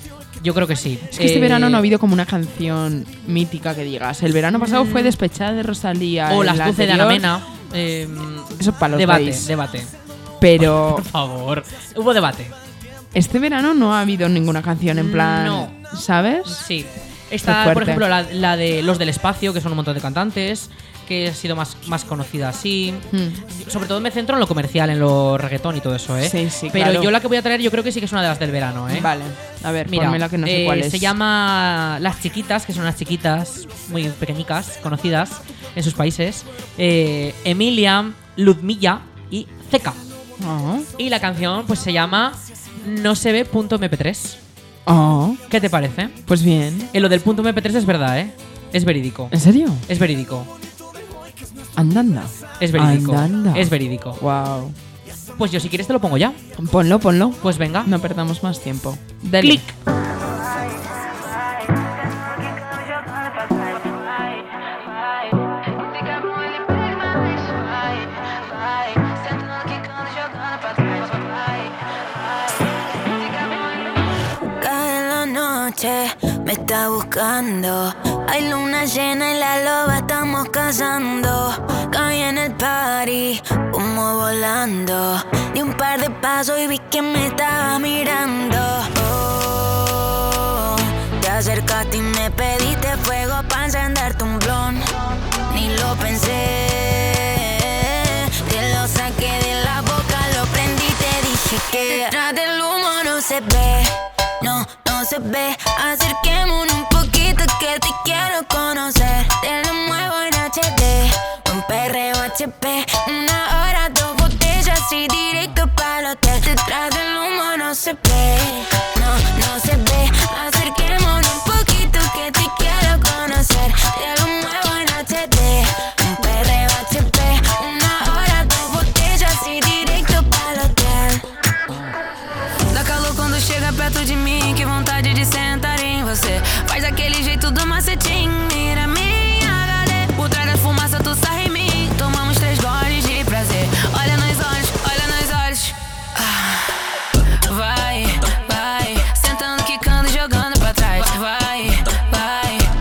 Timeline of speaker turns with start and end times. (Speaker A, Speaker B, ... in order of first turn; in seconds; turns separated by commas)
Speaker A: 0.4-1.8, Speaker B: 1.1-7.2, Speaker A: 4.5-5.2, Speaker A: 6.3-9.9, Speaker B: 8.6-9.5, Speaker B: 10.4-11.0, Speaker A: 10.6-12.5, Speaker B: 13.1-16.6, Speaker A: 14.9-15.7, Speaker A: 16.4-29.1, Speaker B: 17.4-18.0, Speaker B: 23.1-23.4, Speaker B: 26.2-27.1, Speaker B: 28.9-31.1, Speaker A: 29.9-40.0, Speaker B: 40.4-40.9, Speaker A: 41.0-44.4, Speaker B: 44.9-45.4, Speaker A: 45.5-46.2, Speaker B: 46.3-46.9, Speaker A: 46.9-49.3, Speaker B: 49.3-49.8, Speaker A: 49.9-50.5, Speaker B: 51.8-54.8, Speaker A: 52.6-54.2, Speaker A: 55.4-56.4, Speaker B: 56.5-59.6, Speaker A: 57.4-57.9, Speaker A: 59.4-59.7, Speaker C: 67.6-67.9, Speaker C: 69.0-70.0, Speaker C: 74.5-94.9, Speaker C: 95.5-131.2, Speaker D: 132.7-138.7, Speaker C: 138.8-140.1, Speaker D: 140.4-145.5, Speaker D: 149.2-150.8, Speaker C: 151.2-152.6